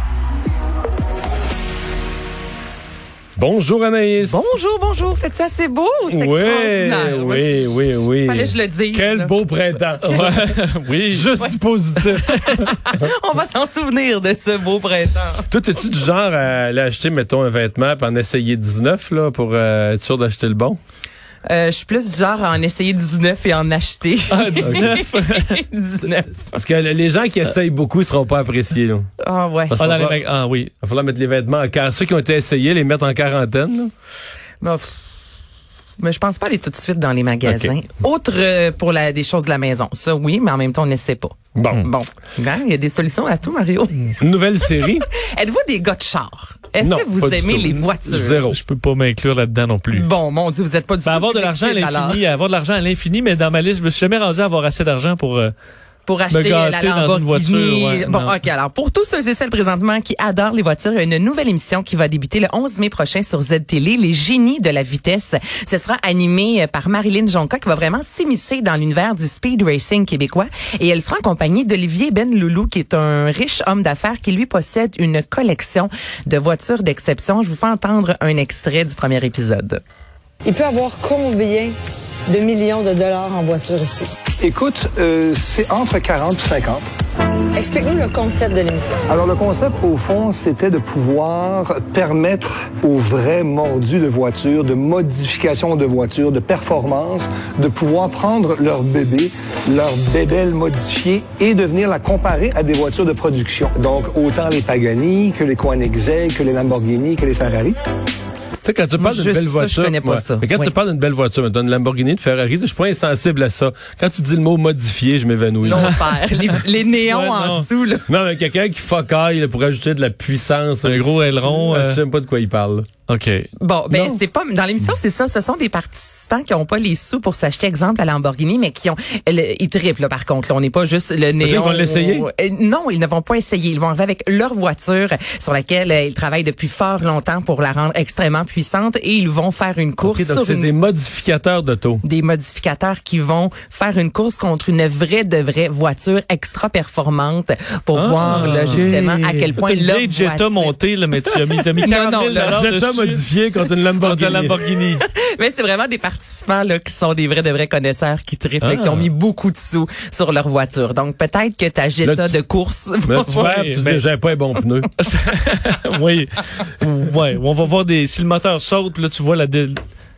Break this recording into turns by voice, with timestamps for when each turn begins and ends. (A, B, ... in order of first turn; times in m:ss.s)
0:03.4-0:04.5 A
0:04.2-0:09.4 B
0:06.1-0:10.3 A
0:10.0-0:11.3 C
0:10.0-0:10.4 B
0:11.1-0:13.0 A
0:11.4-0:15.4 B
0:15.5-0:20.8 A
0:21.4-0:26.5 B
0:24.3-0:25.6 C
0:24.6-0:24.9 A
0:26.5-0:29.1 A
0:29.2-0:29.8 B
0:29.7-0:30.2 A
0:29.7-0:30.7 C
0:30.8-0:33.9 A
0:34.6-0:35.0 B
0:36.0-0:48.4 B
0:37.4-0:37.7 A
0:41.5-0:41.9 A
0:44.2-0:45.1 A
0:46.8-0:48.6 A
0:48.5-0:50.1 C
0:49.9-0:52.2 B
0:51.0-0:55.5 C
0:56.0-1:19.8 B
0:56.3-0:58.4 C
1:20.4-1:21.7 D
1:22.3-1:24.1 D
1:24.4-1:26.8 E
1:27.5-1:29.0 D
1:29.1-1:47.8 E
1:48.6-1:56.0 A
1:49.0-1:50.7 B
1:55.7-1:58.1 B
1:55.7-1:57.7 C
1:58.1-2:02.9 A
2:00.8-2:02.0 C
2:03.1-2:03.5 C
2:03.6-2:20.7 B
2:03.9-2:04.2 A
2:11.4-2:12.3 A
2:20.0-2:22.0 A
2:22.0-2:30.7 B
2:27.9-2:33.2 C
2:28.3-2:29.5 A
2:31.8-2:32.6 B
2:32.4-2:34.5 A
2:34.0-2:35.0 C
2:35.0-2:43.5 B
2:38.6-2:39.1 C
2:42.0-2:42.3 A
2:43.0-2:44.9 A
2:43.2-2:44.0 C
2:45.0-2:49.8 C